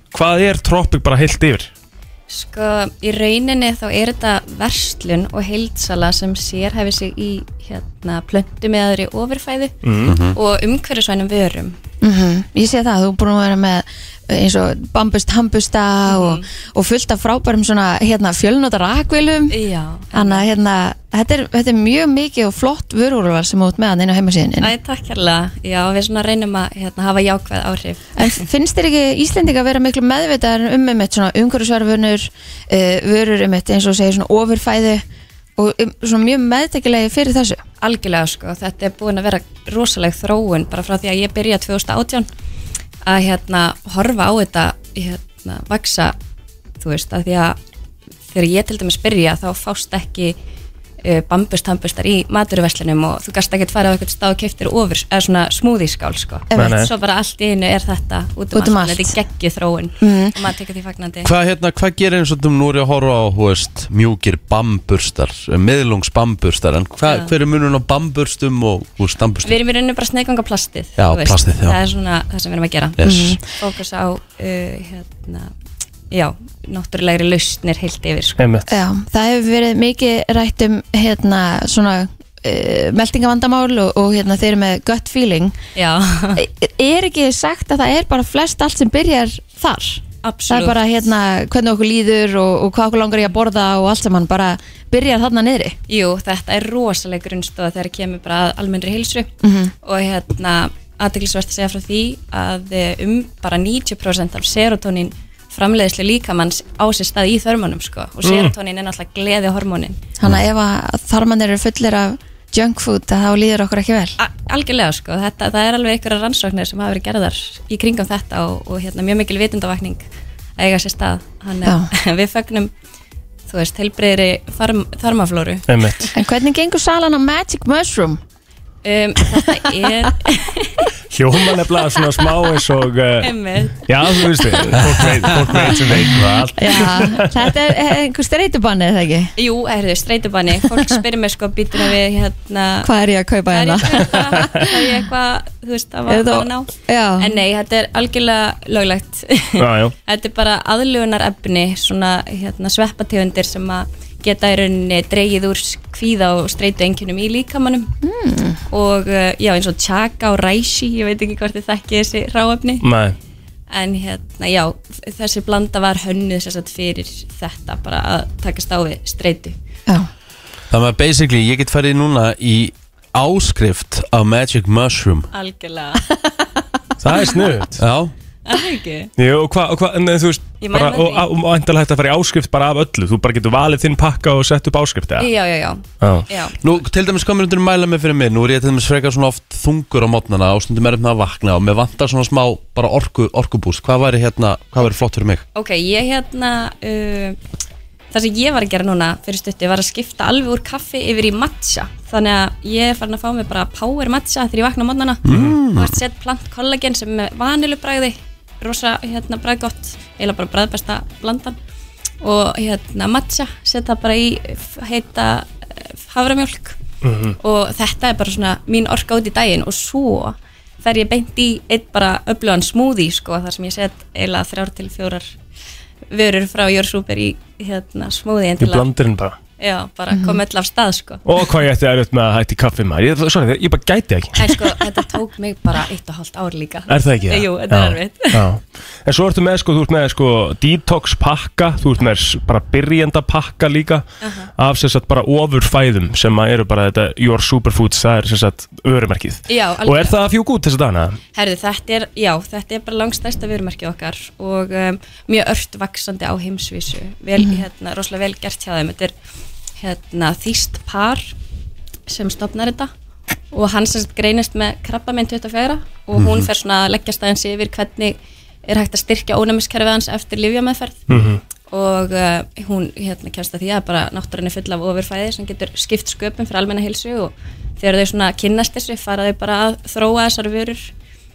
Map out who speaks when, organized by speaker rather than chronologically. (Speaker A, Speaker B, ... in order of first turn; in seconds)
Speaker A: 0.1-1.7, 9.8-10.2, 56.5-56.9, 78.4-78.7, 108.2-108.5, 125.7-126.1, 131.1-133.3, 133.9-137.3, 149.6-149.9, 162.8-163.2, 177.0-177.8, 179.2-185.3, 186.0-186.3, 217.0-217.4, 228.6-229.4, 231.3-234.5, 236.9-244.1, 244.6-251.2, 271.1-271.4
Speaker B: 2.3-9.8, 10.3-11.8, 16.1-16.4, 19.5-20.4, 24.6-28.4, 37.8-42.3, 43.0-46.1, 46.8-47.6, 48.3-50.4, 51.0-61.3, 69.4-75.5, 76.1-78.4, 85.8-86.4, 90.2-90.8, 95.9-99.3, 99.8-110.0, 114.2-120.0, 120.6-122.7, 123.5-126.1, 128.8-130.9, 133.2-134.8, 139.4-142.9, 143.5-157.9, 158.7-162.8, 163.7-169.6, 175.3-176.2, 178.5-179.1, 180.6-181.3, 185.2-186.7, 195.6-197.4, 198.1-211.6, 212.2-216.8, 217.4-225.3, 226.1-228.9, 229.6-231.2, 234.4-238.5, 244.2-244.5, 249.5-250.2, 251.3-259.1, 259.8-261.3, 262.1-262.9, 263.5-271.0, 271.7-280.9
Speaker C: 10.1-10.4, 61.2-69.6, 71.0-71.8, 73.0-73.4, 170.7-175.3, 177.8-178.1, 186.6-195.4, 205.2-206.0, 266.1-266.5
Speaker D: 12.0-19.6, 20.1-24.7, 28.2-35.0, 35.6-37.6, 56.5-56.8, 58.5-59.2, 60.0-60.4, 73.0-73.4, 78.7-85.6, 86.3-95.8, 99.4-99.7, 110.2-114.2, 126.2-128.2, 136.6-139.3, 142.8-144.8, 146.1-147.4, 158.0-158.6, 230.1-230.4